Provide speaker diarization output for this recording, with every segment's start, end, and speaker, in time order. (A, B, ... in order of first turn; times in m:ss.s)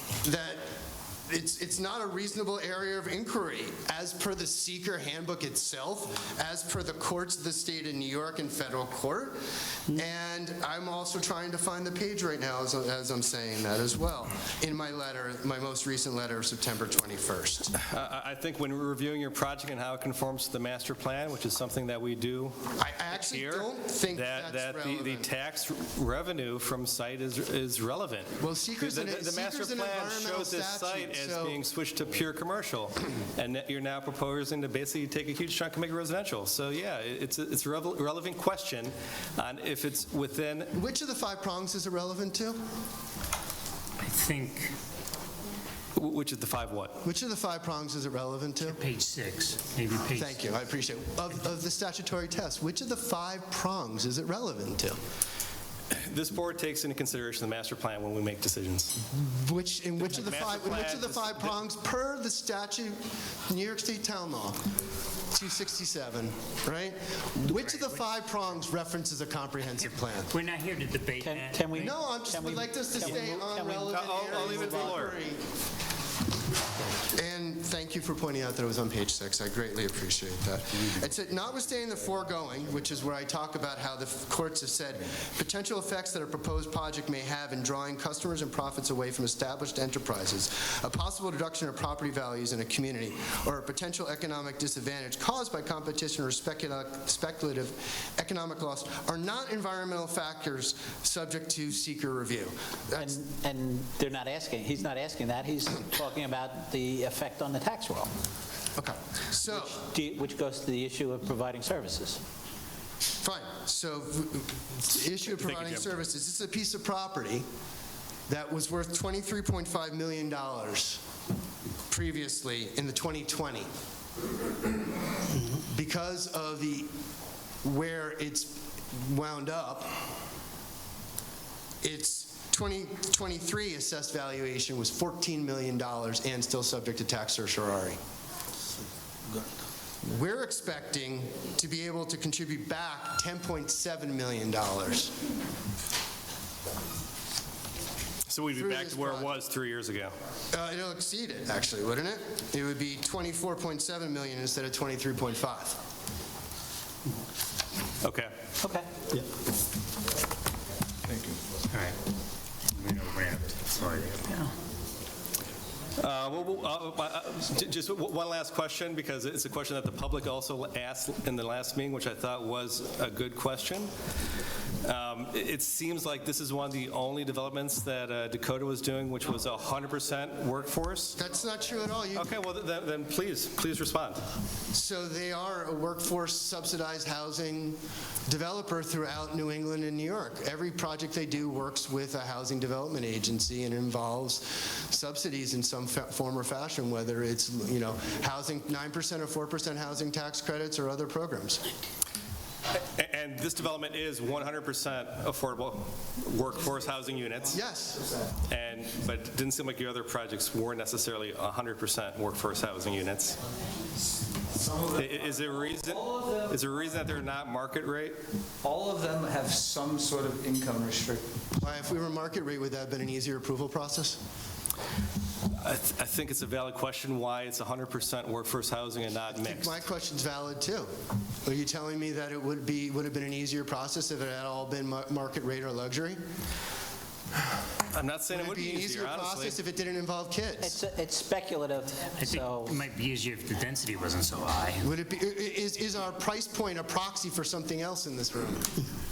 0:00.2-0:00.7 A
0:01.3-0:17.7 A
0:17.8-0:40.7 B
0:22.8-0:25.3 A
0:28.4-0:31.6 A
0:40.7-0:42.6 A
0:44.0-0:44.8 C
0:46.0-0:47.0 B
0:47.0-0:48.8 A
0:48.6-0:50.4 C
0:50.1-0:55.0 A
0:55.9-0:59.0 B
0:59.1-1:04.6 A
1:00.0-1:01.6 B
1:05.3-1:10.3 A
1:07.5-1:08.1 C
1:10.2-1:11.9 C
1:11.2-1:15.1 D
1:11.8-1:15.4 A
1:13.9-1:15.2 B
1:17.1-1:43.2 A
1:43.0-1:48.1 D
1:48.8-1:49.8 A
1:49.5-1:52.2 D
1:53.2-1:57.4 A
1:55.3-1:55.9 B
1:58.3-2:01.0 A
2:01.9-2:03.7 A
2:05.6-2:06.9 A
2:07.6-2:09.9 A
2:11.8-2:18.0 A
2:20.0-2:25.2 A
2:28.3-2:30.2 B
2:28.5-2:29.4 A
2:30.5-2:35.8 A
2:38.0-2:38.3 B
2:38.6-2:38.9 D
2:41.1-2:41.3 E
2:41.7-2:42.0 C
2:42.7-2:44.4 C
2:46.0-2:53.9 B
2:54.8-3:01.2 B
3:01.2-3:02.3 A
3:02.2-3:04.2 B
3:04.7-3:21.6 A
3:22.9-3:27.6 B
3:27.5-3:28.1 A
3:28.5-3:33.4 B
3:34.5-3:35.1 E
3:34.9-3:38.2 B
3:38.6-3:41.2 E
3:41.6-3:44.2 A
3:45.5-3:49.8 B
3:49.4-3:50.9 A
3:51.4-3:56.2 A
3:57.9-3:59.6 B
3:58.3-4:00.8 A
4:00.6-4:02.8 D
4:02.2-4:04.9 C
4:04.8-4:08.8 A